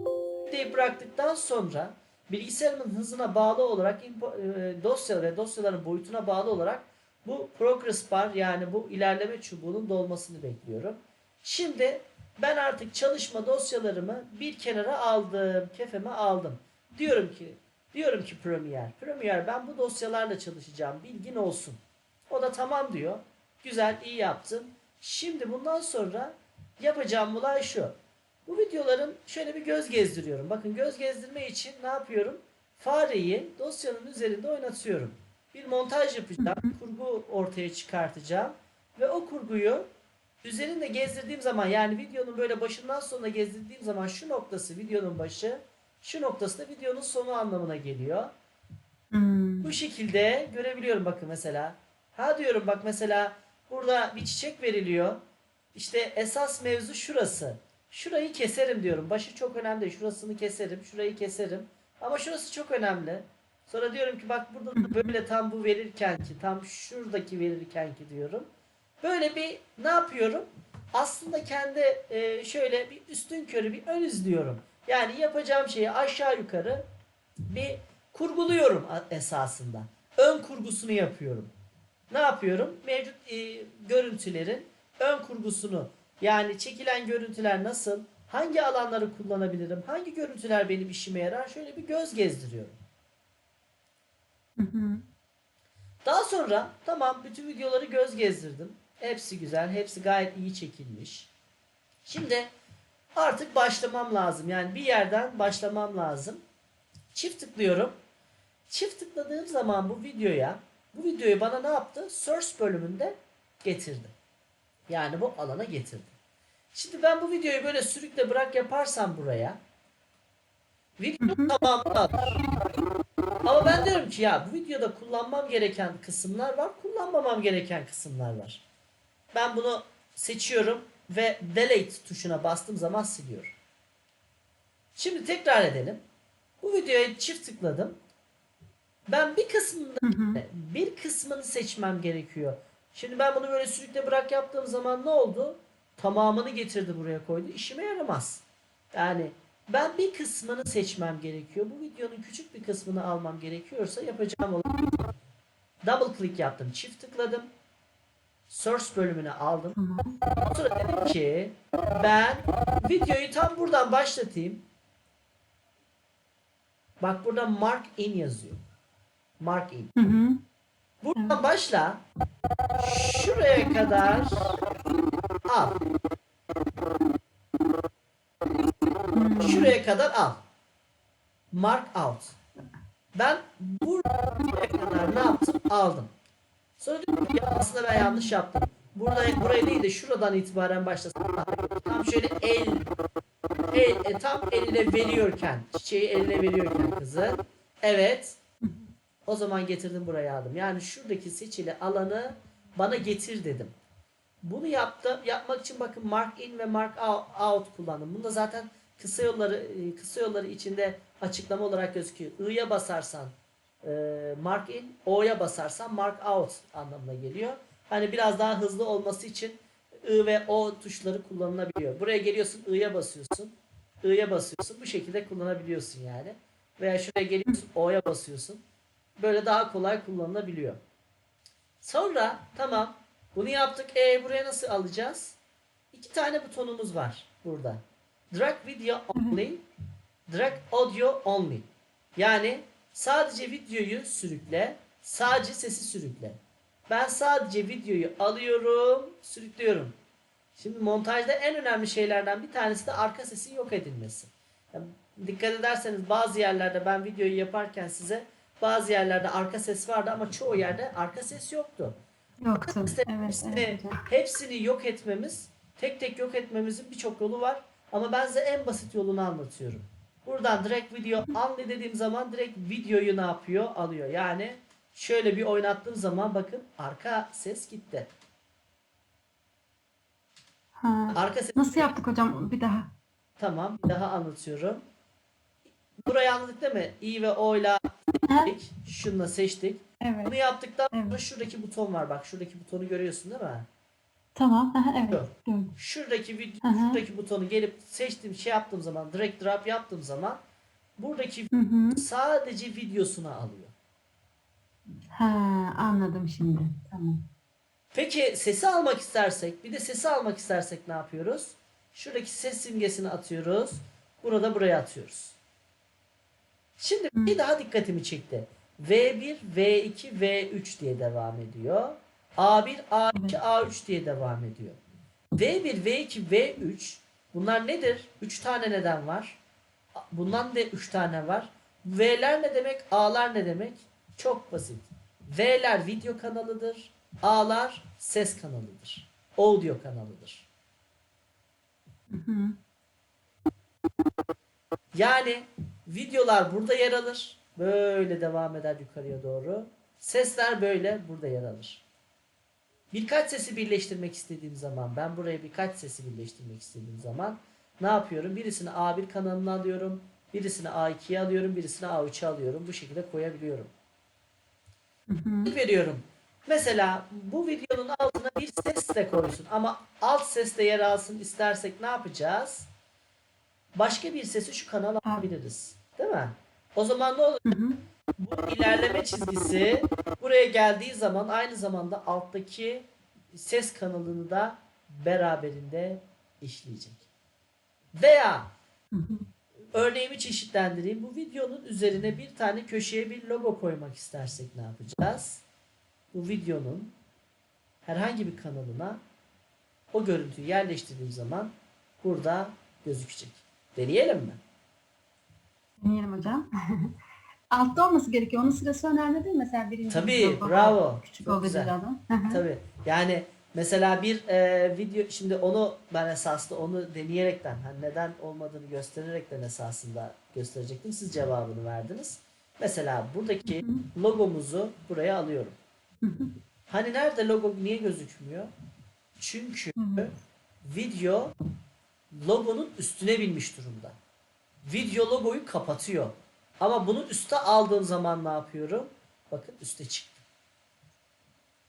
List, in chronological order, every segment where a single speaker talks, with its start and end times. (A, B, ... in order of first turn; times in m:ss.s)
0:00.4-0:21.8 A
0:22.3-0:27.9 A
0:28.5-0:39.8 A
0:36.4-0:36.7 B
0:40.4-0:48.3 A
0:49.1-0:49.8 B
0:49.6-0:55.2 A
0:55.7-1:08.5 A
1:04.8-1:05.1 B
1:09.0-1:16.8 A
1:17.5-1:21.5 A
1:22.1-1:32.8 A
1:34.6-1:35.0 B
1:36.0-1:41.3 A
1:42.0-1:42.5 A
1:43.1-1:46.4 A
1:47.1-1:47.9 A
1:48.7-1:54.1 A
1:54.9-1:56.1 A
1:56.7-1:59.6 A
2:01.0-2:02.4 A
2:01.2-2:01.6 B
2:03.4-2:08.6 A
2:09.3-2:13.5 A
2:15.0-2:16.0 A
2:16.6-2:18.0 A
2:19.1-2:34.8 A
2:20.0-2:20.4 B
2:35.8-2:37.5 A
2:38.5-2:39.8 A
2:39.7-2:40.2 B
2:40.4-2:44.6 A
2:47.0-2:48.6 A
2:49.4-2:49.9 A
2:50.0-2:50.4 B
2:51.0-2:52.0 A
2:51.1-2:51.4 B
2:52.8-2:54.6 A
2:55.4-2:55.8 A
2:59.1-2:59.7 B
2:59.4-3:00.4 A
3:01.5-3:02.4 A
3:03.1-3:06.1 A
3:06.8-3:12.9 A
3:08.0-3:08.3 B
3:13.7-3:18.4 A
3:18.6-3:18.9 B
3:19.2-3:23.7 A
3:24.4-3:48.6 A
3:49.2-3:50.8 A
3:51.8-3:55.4 A
3:55.9-3:59.6 A
3:59.1-3:59.4 B
4:00.3-4:06.4 A
4:06.9-4:09.9 A
4:10.6-4:22.0 A
4:22.4-4:24.0 B
4:22.6-4:38.1 A
4:40.8-4:42.9 B
4:41.1-4:41.9 A
4:43.4-4:44.8 A
4:46.0-4:53.7 A
4:48.2-4:48.5 B
4:50.0-4:50.4 B
4:50.9-4:51.2 B
4:54.3-4:55.7 B
4:55.1-5:00.4 A
4:56.6-4:57.0 B
5:01.0-5:03.7 A
5:01.5-5:02.0 B
5:05.1-5:07.2 B
5:07.9-5:15.4 A
5:16.8-5:24.8 A
5:17.1-5:17.4 B
5:23.1-5:23.4 B
5:25.4-5:29.4 A
5:30.0-5:40.5 A
5:42.1-5:42.6 B
5:44.9-5:51.8 A
5:52.9-6:03.7 A
6:05.1-6:05.5 B
6:05.4-6:12.7 A
6:13.8-6:17.4 A
6:17.4-6:17.8 B
6:18.2-6:27.1 A
6:27.9-6:28.5 A
6:28.9-6:29.3 B
6:29.7-6:35.4 A
6:36.1-6:36.9 A
6:37.8-6:39.0 A
6:39.9-6:44.4 A
6:45.8-6:46.9 B
6:47.5-6:52.4 B
6:49.9-6:51.7 A
6:52.3-7:05.6 A
7:03.5-7:03.9 B
7:06.0-7:06.4 B
7:06.7-7:08.5 A
7:09.2-7:11.3 A
7:09.8-7:10.1 B
7:12.1-7:14.0 A
7:14.6-7:20.2 A